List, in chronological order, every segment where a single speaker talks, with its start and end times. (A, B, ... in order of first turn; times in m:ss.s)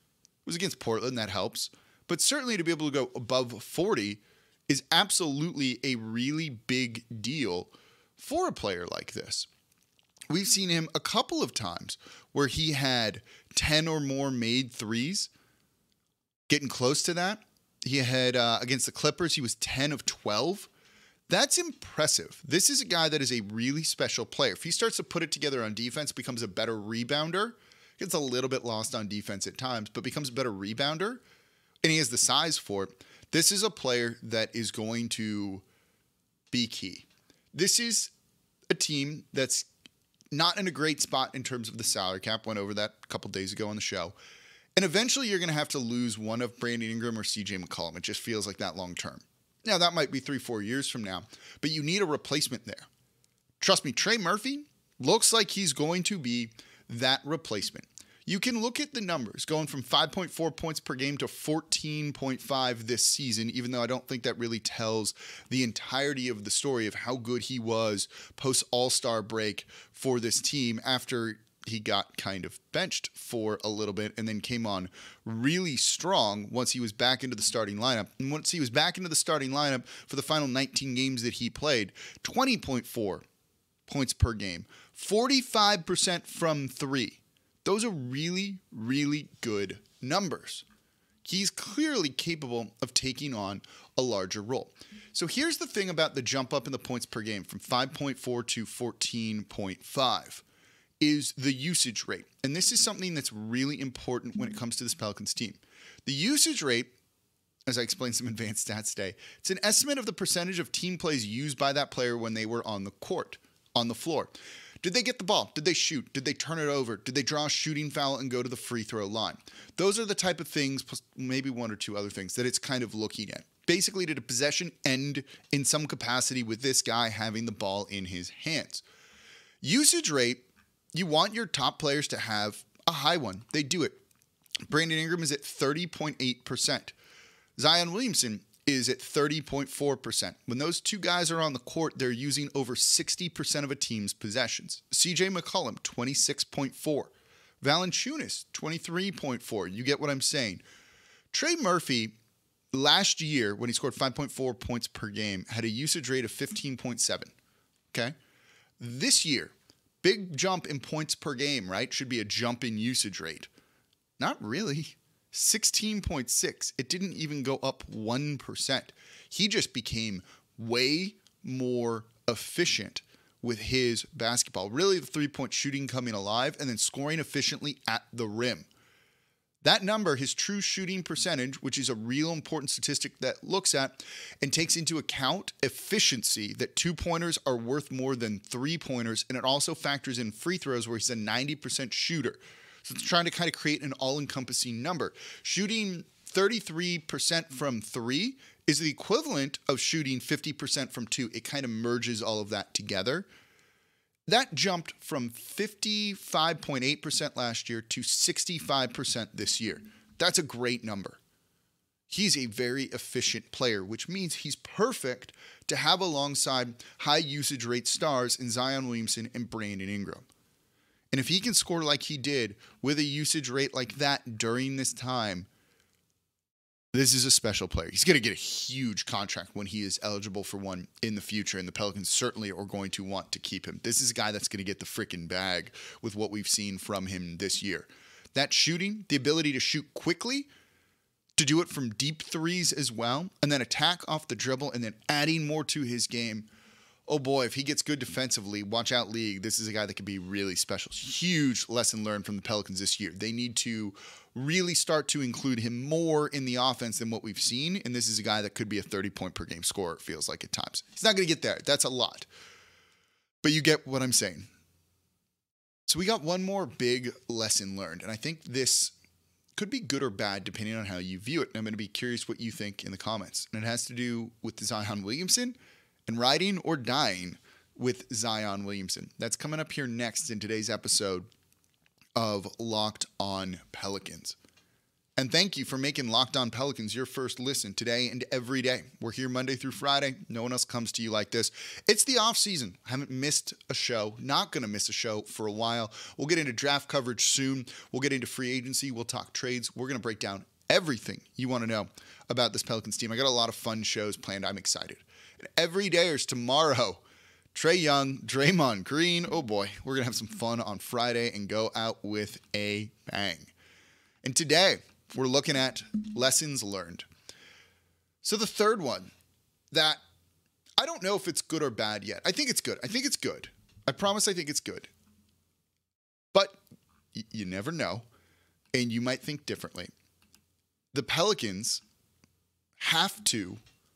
0:00.5-0:09.5 A
0:10.3-0:15.3 A
0:16.5-0:20.7 A
0:21.3-0:31.2 A
0:31.8-0:35.6 A
0:36.5-0:38.1 A
0:38.7-0:39.7 A
0:40.3-0:44.1 A
0:44.8-0:52.9 A
0:53.6-1:23.2 A
1:23.9-1:30.6 A
1:31.2-1:40.4 A
1:41.0-1:46.9 A
1:47.7-2:08.8 A
2:09.6-2:14.0 A
2:14.7-2:17.0 A
2:17.6-2:30.6 A
2:31.3-2:32.2 A
2:32.7-2:37.3 A
2:38.8-2:43.5 A
2:44.2-2:58.7 A
2:59.6-3:23.3 A
3:24.3-3:31.2 A
3:32.1-3:40.3 A
3:41.1-3:45.5 A
3:46.9-4:00.5 A
4:01.4-4:06.5 A
4:07.1-4:22.3 A
4:23.4-4:24.5 A
4:25.9-4:28.9 A
4:29.6-4:35.6 A
4:36.1-4:41.3 A
4:42.2-4:44.4 A
4:45.2-5:07.0 A
5:07.5-5:13.5 A
5:14.2-5:17.1 A
5:18.2-5:19.1 A
5:19.7-5:20.0 A
5:20.8-5:24.9 A
5:26.3-5:26.6 A
5:27.2-5:28.1 A
5:28.7-5:29.9 A
5:30.9-5:31.8 A
5:32.8-5:33.6 A